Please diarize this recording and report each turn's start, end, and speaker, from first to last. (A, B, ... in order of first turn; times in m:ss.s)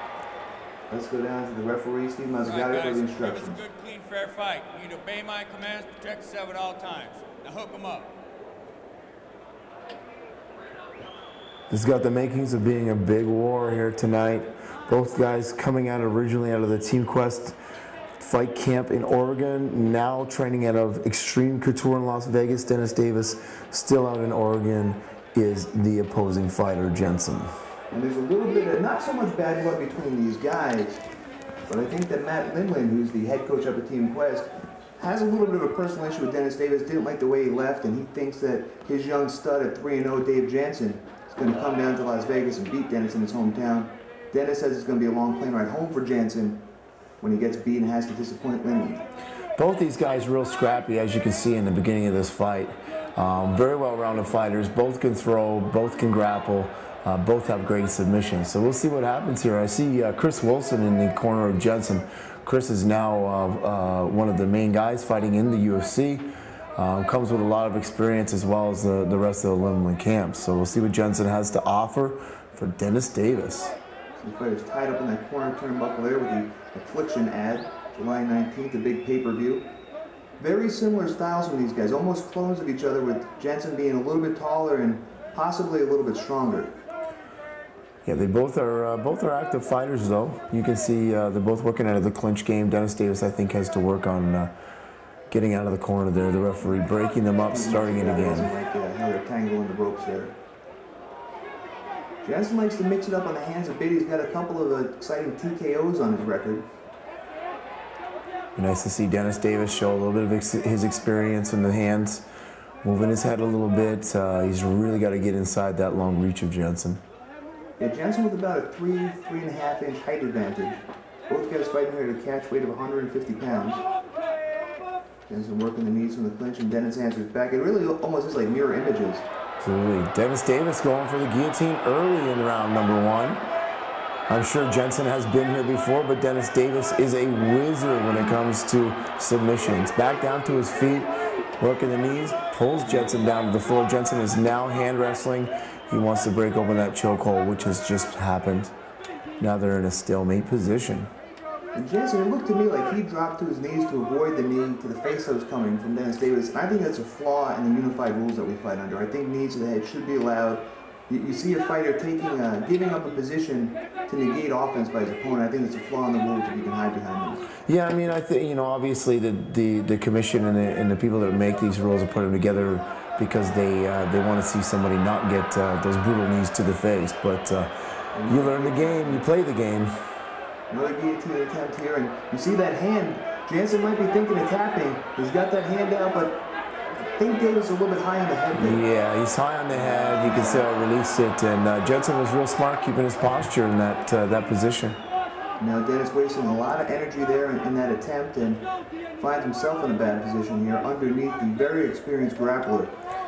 0:00.9-0:03.6 A
0:02.4-0:08.1 B
0:11.7-0:17.6 C
0:18.2-0:27.5 C
0:27.9-0:31.0 A
0:31.7-0:46.7 A
0:47.2-0:49.0 A
0:49.6-1:13.8 C
1:14.2-1:19.7 A
1:20.4-1:26.7 A
1:28.0-1:34.5 C
1:35.3-1:38.5 C
1:37.4-1:40.4 A
1:42.2-1:46.7 A
1:48.6-1:52.2 C
1:52.8-1:57.0 C
1:57.8-2:03.8 A
2:05.3-2:09.3 A
2:09.6-2:13.4 C
2:14.3-2:28.7 C
2:29.4-2:31.1 C
2:31.7-2:47.5 A
2:47.7-2:57.7 C
2:58.1-2:59.2 A
2:58.2-2:59.9 C
3:00.7-3:06.5 A
3:07.2-3:08.8 A
3:08.5-3:15.0 C
3:09.7-3:10.7 A
3:15.6-3:18.7 A
3:19.2-3:22.9 A